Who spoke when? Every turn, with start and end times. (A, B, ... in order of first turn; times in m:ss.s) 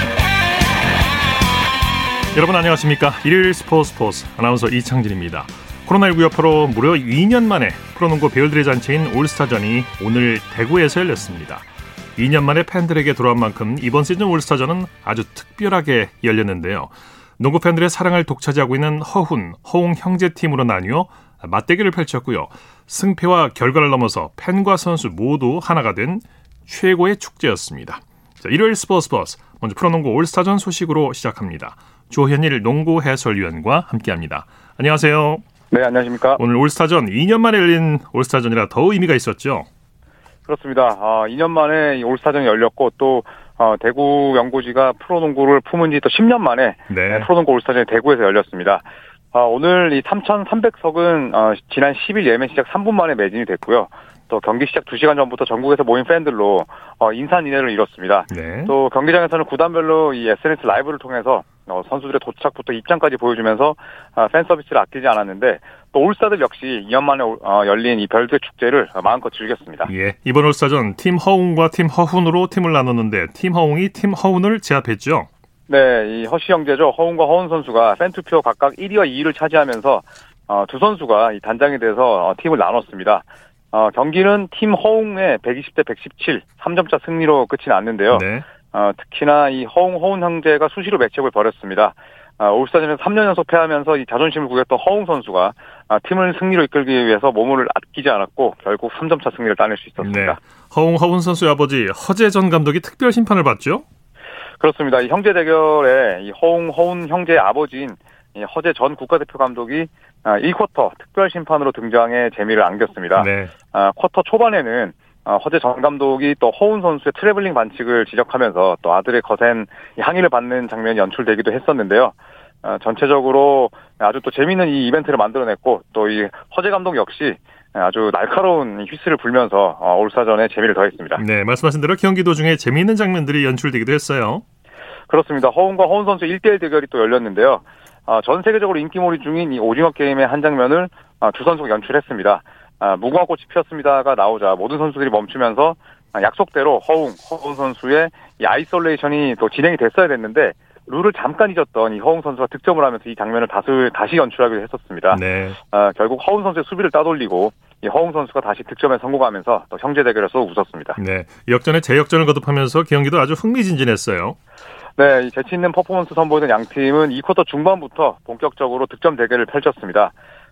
0:02.3-0:11.6 A
0:12.2-0:35.4 A
0:35.7-0:36.4 B
0:36.4-0:39.7 A
0:40.5-1:09.9 B
0:46.9-0:47.3 A
0:58.3-0:58.7 A
1:09.9-1:15.3 A
1:15.7-1:40.4 B
1:28.1-1:28.4 A
1:40.0-1:43.8 A
1:44.6-2:11.2 B
1:53.2-1:53.5 A
2:11.2-2:14.4 A
2:15.1-2:41.0 B
2:35.1-2:35.6 A
2:41.0-2:44.4 A
2:45.0-2:50.1 B